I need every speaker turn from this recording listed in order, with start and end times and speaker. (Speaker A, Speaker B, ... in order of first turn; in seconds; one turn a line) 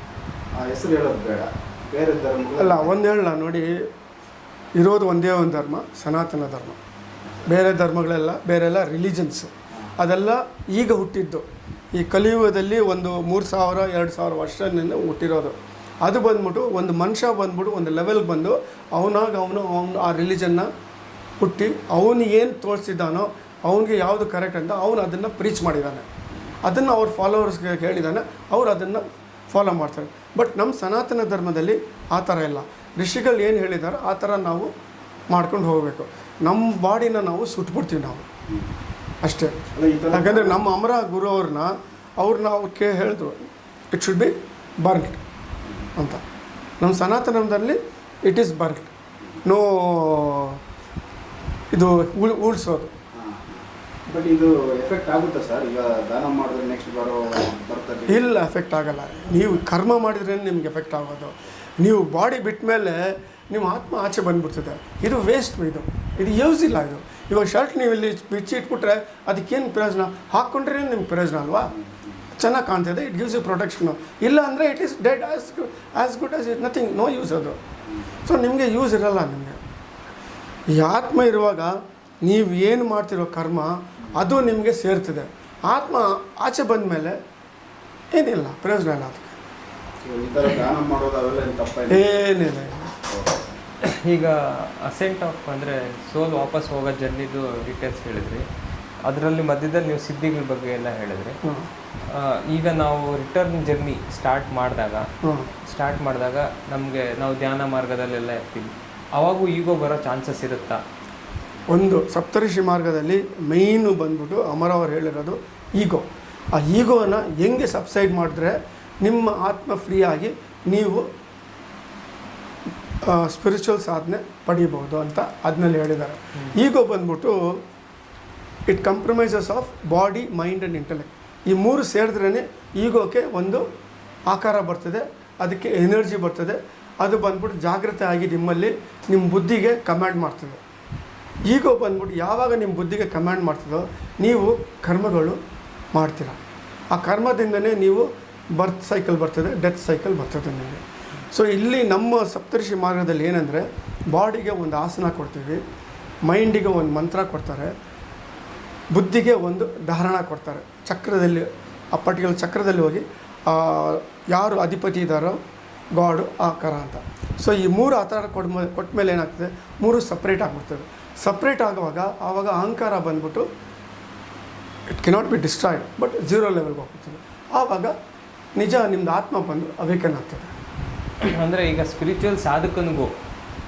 Speaker A: 0.6-3.0
Speaker B: 2.6-3.7
Speaker B: 4.8-6.8
Speaker B: 7.5-20.7
Speaker B: 21.4-26.1
Speaker B: 26.6-34.7
Speaker B: 35.3-38.3
Speaker B: 39.2-45.2
Speaker A: 39.7-40.6
Speaker B: 46.0-46.2
Speaker B: 46.8-48.9
Speaker B: 49.4-50.6
Speaker B: 51.7-52.9
Speaker A: 53.1-58.2
Speaker B: 58.1-71.7
Speaker B: 72.3-77.6
Speaker B: 78.2-79.6
Speaker B: 80.7-87.2
Speaker B: 88.2-89.4
Speaker A: 90.0-92.1
Speaker B: 91.9-93.0
Speaker A: 93.1-93.5
Speaker C: 93.8-98.5
Speaker C: 99.0-101.4
Speaker C: 102.1-105.0
Speaker B: 105.2-105.5
Speaker C: 105.7-110.8
Speaker B: 111.7-121.0
Speaker B: 123.0-127.6
Speaker B: 128.7-133.6
Speaker B: 134.3-140.6
Speaker B: 141.5-145.4
Speaker B: 145.9-146.4
Speaker B: 146.9-155.6
Speaker B: 156.3-157.7
Speaker B: 158.9-165.4
Speaker B: 165.9-173.5
Speaker B: 174.9-177.9
Speaker B: 178.6-180.5
Speaker C: 181.2-183.1